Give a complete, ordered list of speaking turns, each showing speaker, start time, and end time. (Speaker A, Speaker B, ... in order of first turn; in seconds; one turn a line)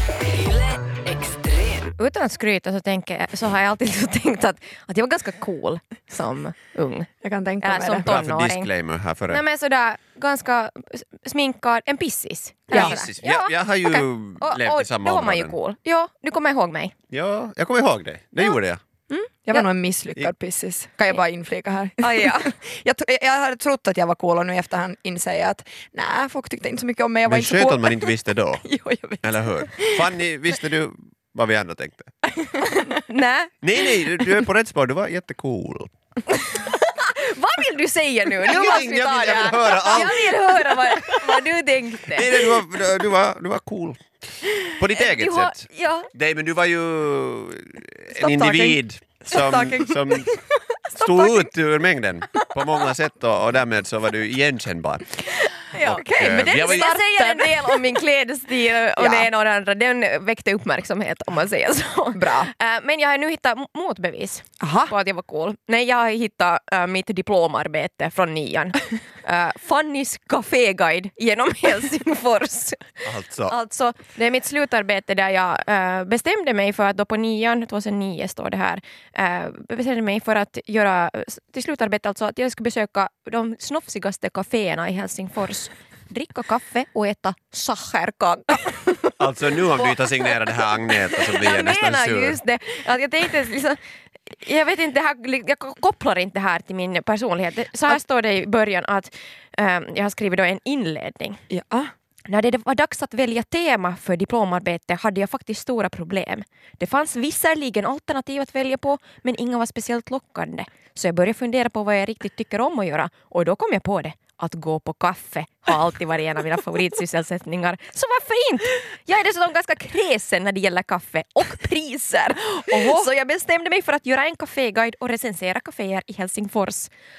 Speaker A: 1.7-7.1
Speaker B: 7.2-8.1
Speaker A: 7.6-8.7
Speaker C: 8.0-9.4
Speaker A: 9.3-16.9
Speaker C: 12.7-15.6
Speaker C: 17.1-18.8
Speaker B: 19.1-28.0
Speaker A: 22.0-22.5
Speaker C: 27.2-28.6
Speaker B: 28.6-29.2
Speaker C: 29.2-32.1
Speaker A: 32.5-34.3
Speaker C: 33.6-35.9
Speaker A: 36.3-42.4
Speaker C: 38.4-40.5
Speaker C: 42.1-44.0
Speaker C: 44.7-50.3
Speaker A: 44.9-46.1
Speaker B: 48.2-50.4
Speaker C: 51.0-55.1
Speaker A: 55.7-89.2
Speaker C: 55.7-57.0
Speaker B: 56.0-57.8
Speaker B: 59.0-59.2
Speaker B: 62.1-62.5
Speaker B: 64.6-64.9
Speaker C: 73.0-73.5
Speaker C: 89.2-92.4
Speaker A: 89.7-93.8
Speaker A: 94.3-101.4
Speaker B: 101.5-101.9
Speaker A: 102.3-126.9
Speaker B: 122.7-123.0